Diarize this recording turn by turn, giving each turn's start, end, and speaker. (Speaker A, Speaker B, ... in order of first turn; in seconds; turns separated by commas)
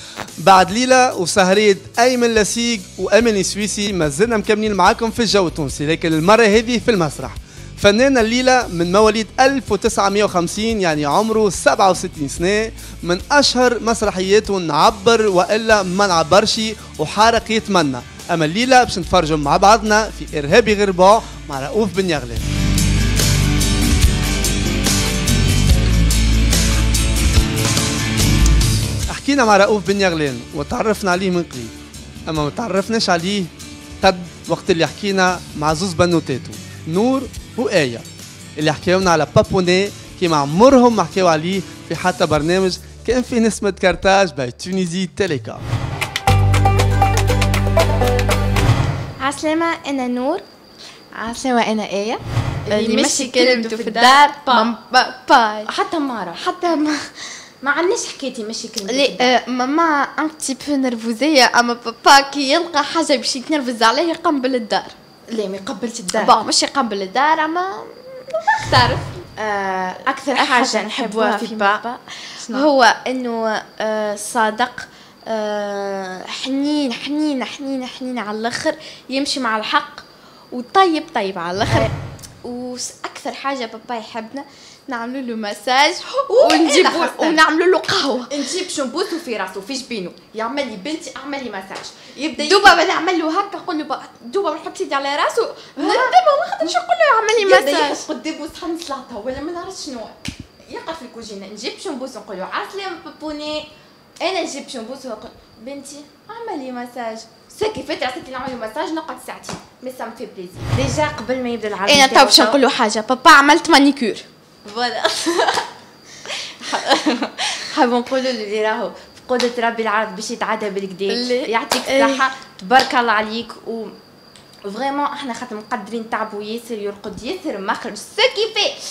Speaker A: 0.4-22.4, Speaker A: 29.1-31.7, Speaker A: 32.3-38.0, Speaker A: 38.6-45.6, Speaker B: 49.2-50.5, Speaker C: 51.2-54.7, Speaker B: 52.7-55.7, Speaker C: 55.7-56.7, Speaker B: 56.6-56.9, Speaker C: 57.6-59.4, Speaker B: 58.9-65.0, Speaker C: 65.3-66.3, Speaker B: 66.2-69.1, Speaker C: 69.4-71.9, Speaker B: 70.3-81.9, Speaker B: 82.4-88.3, Speaker C: 86.3-87.4, Speaker C: 88.3-92.8, Speaker B: 92.4-98.0, Speaker C: 95.8-96.8, Speaker C: 97.4-103.7, Speaker C: 104.2-112.6, Speaker B: 111.9-115.6, Speaker B: 116.6-117.5, Speaker C: 117.7-123.9, Speaker B: 121.1-122.2, Speaker C: 124.7-128.8